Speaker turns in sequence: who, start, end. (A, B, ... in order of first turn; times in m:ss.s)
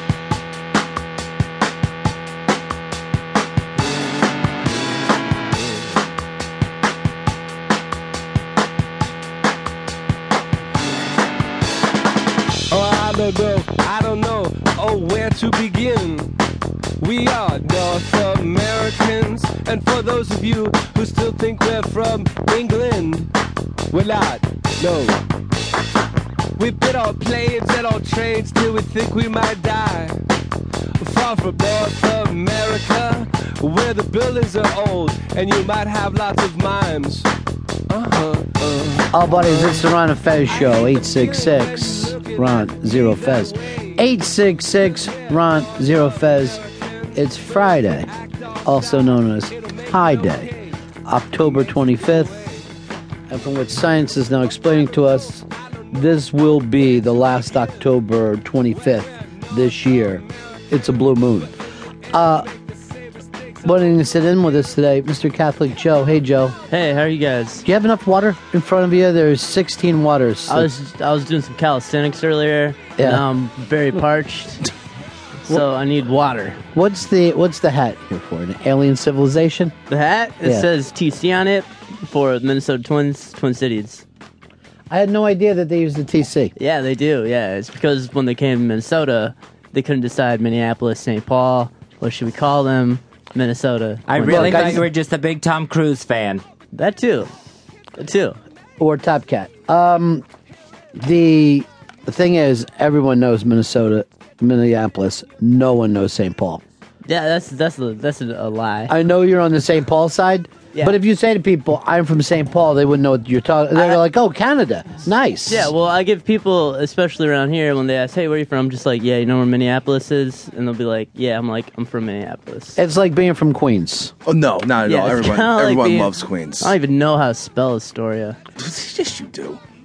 0:12.7-0:16.4 A
0:17.0-0:23.3 A
0:23.9-0:25.2 A
0:26.6-0:30.2 A
0:31.0-0:37.3 A
0:37.9-0:39.6 A
0:39.1-0:46.6 B
0:40.9-0:44.1 A
0:45.0-0:47.4 A
0:47.2-0:48.1 B
0:48.1-0:48.9 A
0:48.6-0:50.6 B
0:49.5-0:50.6 A
0:51.1-0:52.4 B
0:52.2-0:52.6 A
0:53.3-1:01.6 B
1:02.1-1:02.5 B
1:03.6-1:06.6 B
1:06.7-1:07.7 C
1:07.6-1:10.7 B
1:10.5-1:14.7 C
1:13.0-1:13.2 B
1:15.4-1:16.6 C
1:16.7-1:19.7 B
1:19.9-1:24.0 C
1:20.4-1:20.7 B
1:24.9-1:26.5 B
1:26.6-1:34.8 C
1:34.1-1:36.4 D
1:34.3-1:34.8 B
1:36.7-1:37.3 C
1:38.0-1:38.4 C
1:38.8-1:40.2 B
1:41.0-1:46.6 B
1:47.0-1:48.9 C
1:48.9-1:55.7 B
1:55.5-2:02.8 C
2:02.8-2:04.1 B
2:04.3-2:06.7 E
2:04.9-2:08.4 C
2:08.6-2:09.6 E